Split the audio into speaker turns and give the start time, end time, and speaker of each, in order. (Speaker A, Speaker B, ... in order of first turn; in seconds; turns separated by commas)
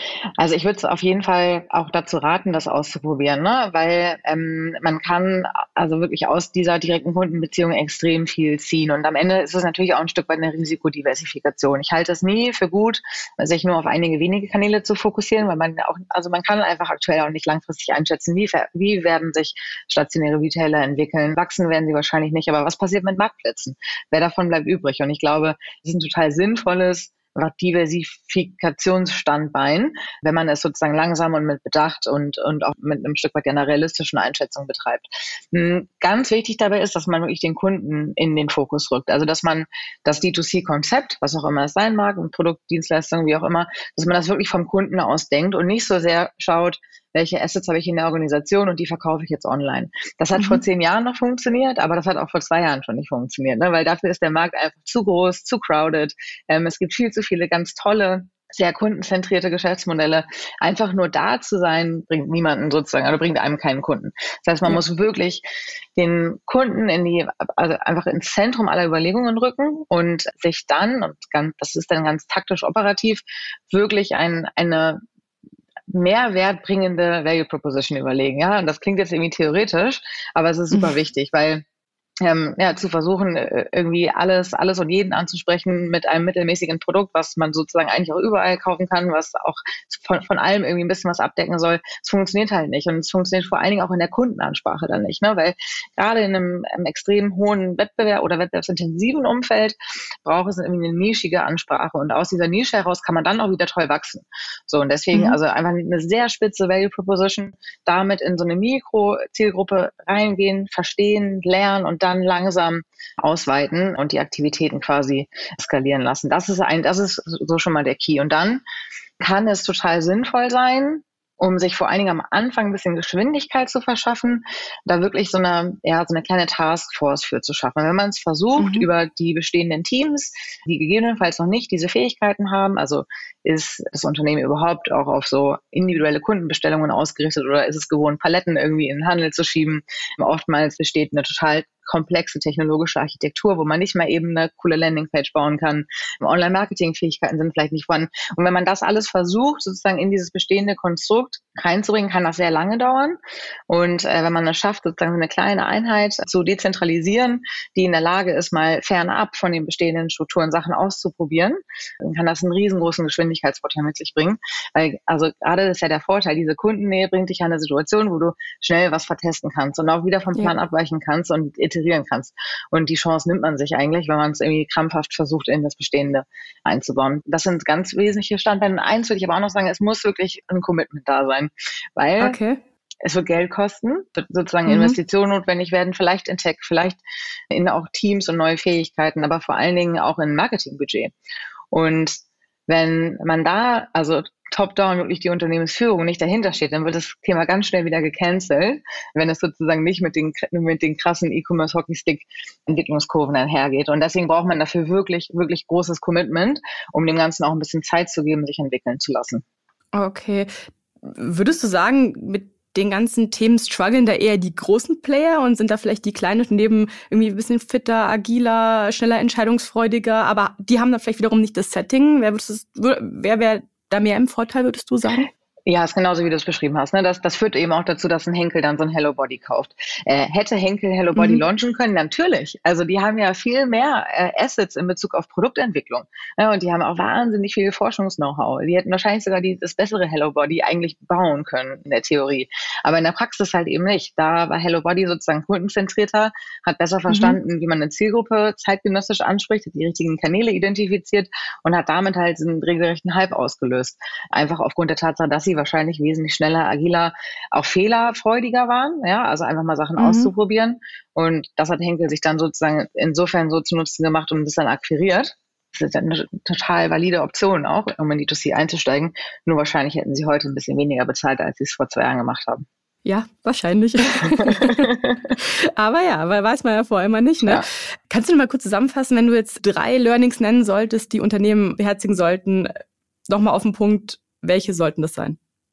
Speaker A: 0.4-65.4, Speaker B: 50.4-50.6, Speaker A: 66.0-75.0, Speaker A: 75.9-81.6, Speaker A: 82.2-118.6, Speaker B: 105.1-105.4, Speaker A: 119.2-153.2, Speaker B: 128.6-128.9, Speaker A: 153.7-182.4, Speaker B: 182.2-182.6, Speaker A: 183.0-187.0, Speaker B: 184.7-185.0, Speaker A: 187.5-191.1, Speaker A: 191.7-209.4, Speaker B: 209.9-210.5, Speaker B: 211.1-225.3, Speaker A: 225.7-272.6, Speaker B: 231.2-231.4, Speaker B: 247.1-247.4, Speaker B: 260.0-260.3, Speaker B: 273.1-282.7, Speaker B: 283.3-285.4